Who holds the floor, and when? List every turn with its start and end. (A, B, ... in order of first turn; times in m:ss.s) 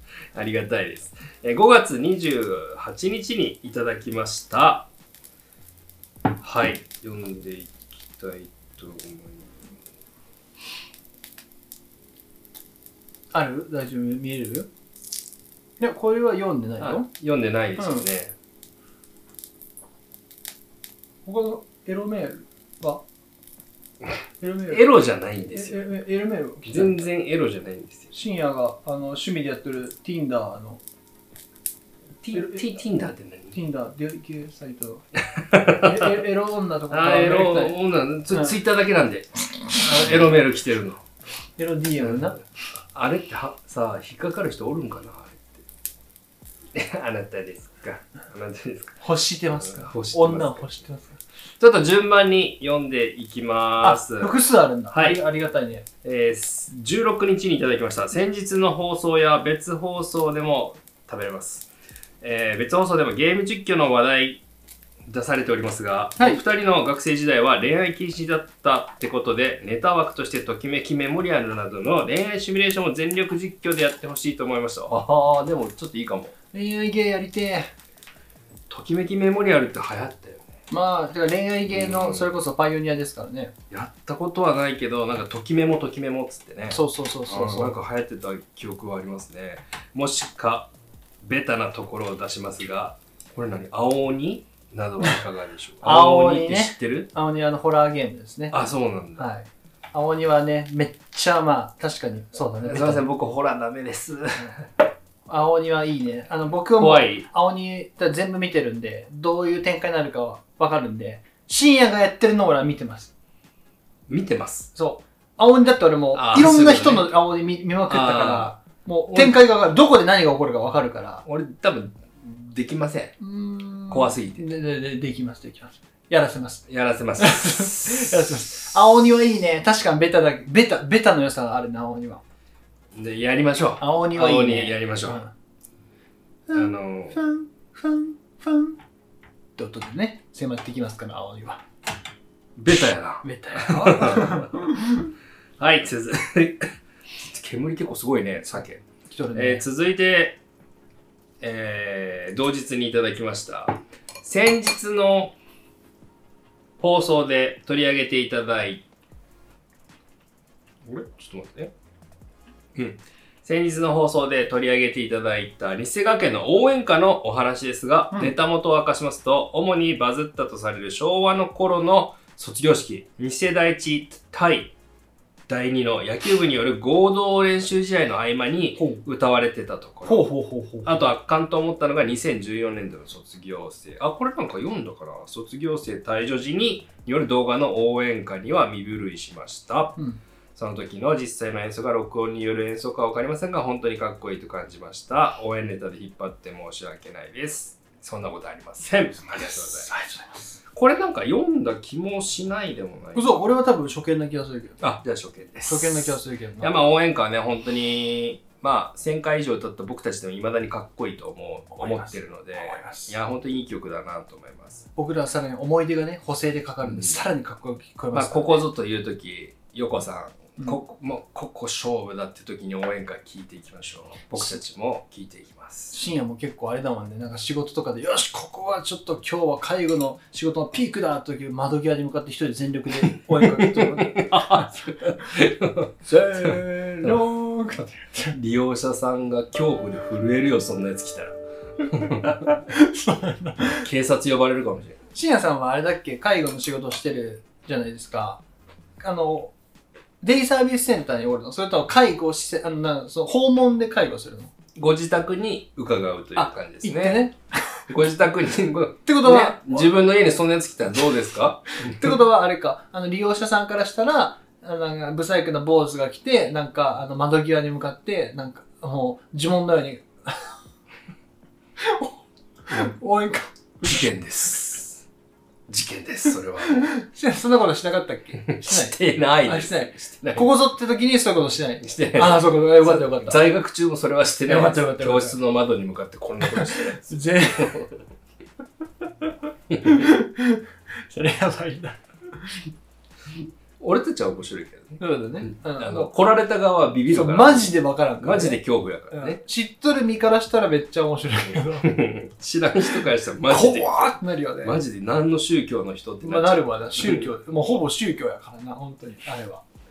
0:00.3-0:04.9 A
0:06.4-0:09.8 A
0:13.3-0:14.7 B
0:15.8-0:17.1 B
0:16.8-0:18.3 A
0:17.8-0:18.0 B
0:21.2-0:23.0 B
0:24.4-0:24.8 B
0:24.7-0:25.8 A
0:25.5-0:27.0 B
0:26.6-0:28.1 A
0:28.1-0:30.8 B
0:32.2-0:33.5 A
0:33.5-0:35.0 B
0:35.2-0:36.1 A
0:35.6-0:37.8 B
0:36.9-0:41.0 A
0:41.6-0:42.4 B
0:42.0-0:45.6 A
0:46.7-0:49.0 A
0:49.0-0:51.2 B
0:49.6-0:50.8 A
0:51.6-0:54.4 A
0:53.8-0:55.8 B
0:54.9-0:55.2 A
0:56.0-1:01.7 A
1:02.2-1:04.4 A
1:05.1-1:16.3 A
1:16.5-1:17.7 B
1:18.7-1:20.4 A
1:20.7-1:23.5 B
1:21.7-1:22.3 A
1:23.7-1:30.7 A
1:26.7-1:27.7 B
1:31.2-1:37.1 A
1:35.8-1:38.6 B
1:38.5-1:39.3 A
1:39.2-1:43.0 B
1:42.6-1:44.7 A
1:45.3-1:53.1 B
1:46.8-1:47.2 A
1:54.1-1:54.7 A
1:54.7-2:01.2 B
1:56.1-1:57.2 A
1:57.9-1:58.5 A
1:59.1-1:59.4 A
2:01.2-2:03.2 A
2:03.2-2:06.6 B
2:03.9-2:04.4 A
2:06.7-2:08.4 A
2:07.2-2:12.2 B
2:12.9-2:15.2 A
2:13.8-2:15.3 B
2:16.5-2:18.8 B
2:16.5-2:17.2 A
2:19.6-2:21.6 B
2:22.6-2:24.5 A
2:23.2-2:25.1 B
2:25.6-2:28.8 A
2:29.1-2:29.6 B
2:29.3-2:30.4 A
2:31.4-2:35.4 A
2:36.8-2:38.8 A
2:40.8-2:41.7 A
2:42.7-2:54.7 A
2:55.5-3:00.2 A
2:58.8-2:59.0 B
3:00.0-3:01.0 B
3:00.8-3:10.0 A
3:10.5-3:19.9 A
3:19.4-3:20.5 B
3:20.7-3:23.4 A
3:23.1-3:24.8 B
3:24.8-3:34.9 A
3:25.6-3:26.8 B
3:31.7-3:33.1 B
3:35.0-3:38.6 B
3:36.8-3:37.2 A
3:38.1-3:46.0 A
3:45.9-3:54.8 B
3:53.0-3:57.2 A
3:56.1-3:58.4 B
3:58.3-4:02.4 A
4:01.8-4:03.9 B
4:03.8-4:05.0 A
4:05.1-4:08.4 B
4:09.0-4:09.5 B
4:10.2-4:14.5 B
4:14.7-4:17.2 A
4:16.3-4:17.8 B
4:17.9-4:22.1 A
4:19.0-4:19.9 B
4:21.8-4:30.4 B
4:31.8-4:32.1 B
4:32.7-4:34.0 B
4:33.8-4:35.1 A
4:35.7-4:36.9 A
4:36.6-4:43.5 B
4:38.4-4:40.5 A
4:41.8-4:48.0 A
4:44.5-4:45.4 B
4:46.4-4:47.8 B
4:49.8-4:52.7 B
4:53.8-4:59.4 A
4:55.0-4:56.1 B
4:57.1-4:58.6 B
4:59.1-5:01.9 B
5:01.8-5:07.3 A
5:03.5-5:04.8 B
5:06.2-5:09.6 B